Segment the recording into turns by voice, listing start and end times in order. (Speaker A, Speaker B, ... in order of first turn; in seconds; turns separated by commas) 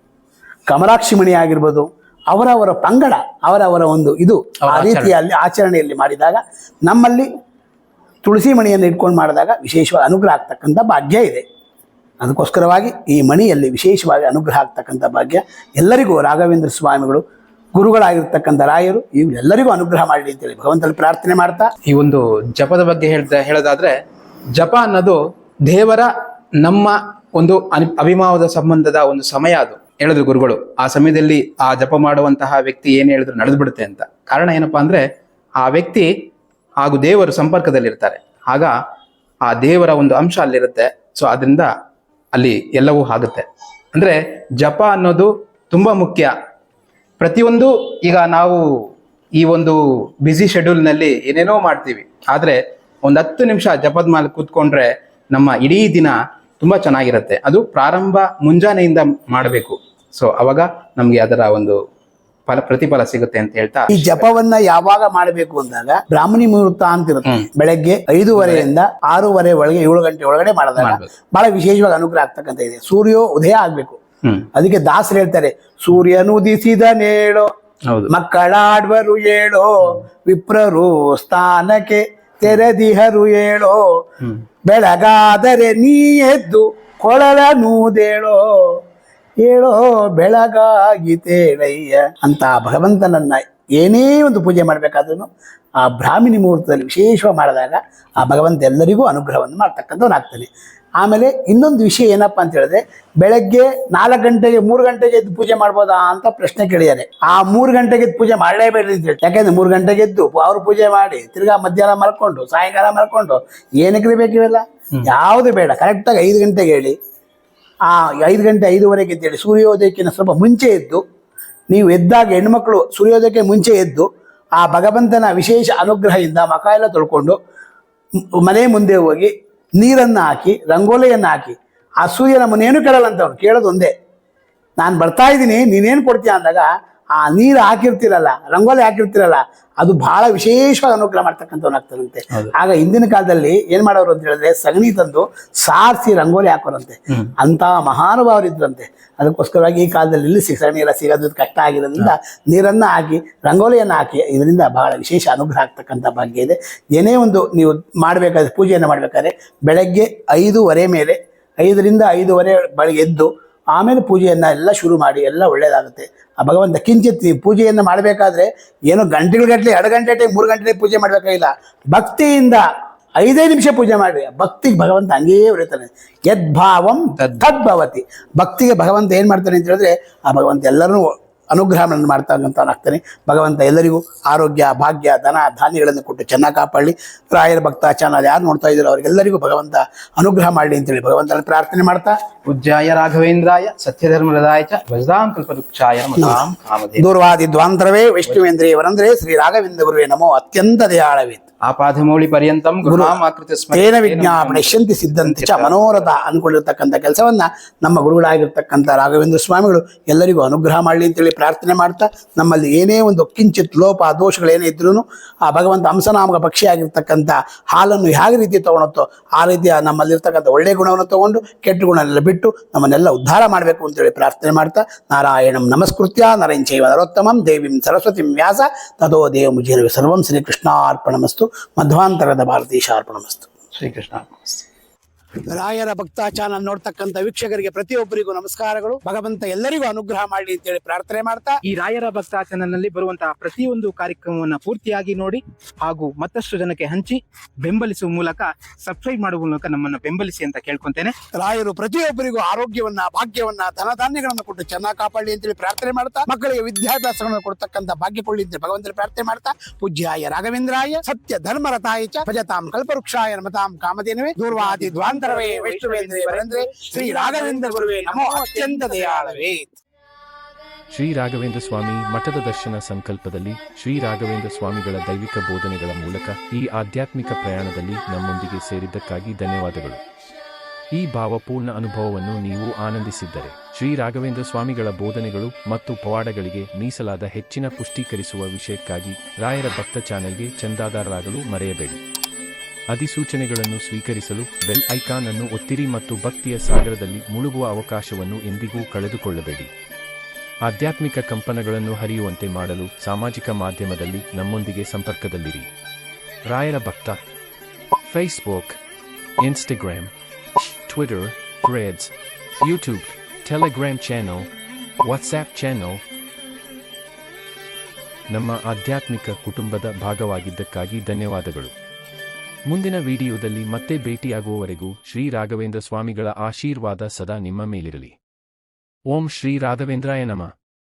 Speaker A: 0.7-7.3, Speaker B: 4.7-5.1, Speaker A: 8.2-11.4, Speaker A: 12.2-17.2, Speaker A: 17.8-21.7, Speaker B: 21.9-23.9, Speaker B: 24.6-25.2, Speaker B: 25.7-26.1, Speaker B: 26.6-35.0, Speaker B: 35.6-36.1, Speaker B: 36.8-38.7, Speaker B: 39.5-41.7, Speaker B: 42.3-46.3, Speaker B: 47.2-48.6, Speaker B: 49.4-61.8, Speaker B: 62.5-64.3, Speaker A: 63.9-74.0, Speaker B: 68.3-68.7, Speaker B: 70.8-71.1, Speaker A: 74.5-77.5, Speaker A: 78.1-83.8, Speaker A: 84.7-88.5, Speaker A: 89.4-95.3, Speaker A: 95.8-117.0, Speaker A: 117.9-121.0, Speaker A: 121.7-127.4, Speaker A: 128.4-133.9, Speaker A: 134.8-172.6, Speaker A: 173.2-192.2, Speaker B: 177.2-177.5, Speaker B: 192.5-197.1, Speaker A: 197.0-201.4, Speaker B: 201.7-206.1, Speaker A: 202.8-203.2, Speaker A: 203.7-233.5, Speaker B: 233.8-234.6, Speaker A: 235.5-241.6, Speaker B: 241.7-251.2, Speaker A: 251.3-269.7, Speaker B: 264.5-269.5, Speaker C: 270.9-280.0, Speaker C: 280.9-292.0, Speaker C: 292.9-299.7, Speaker C: 300.6-305.7, Speaker C: 306.5-307.2, Speaker C: 308.1-308.8, Speaker C: 309.4-310.1, Speaker C: 310.9-314.5, Speaker C: 315.0-316.0, Speaker C: 318.3-321.7, Speaker C: 322.7-328.2, Speaker C: 329.1-330.5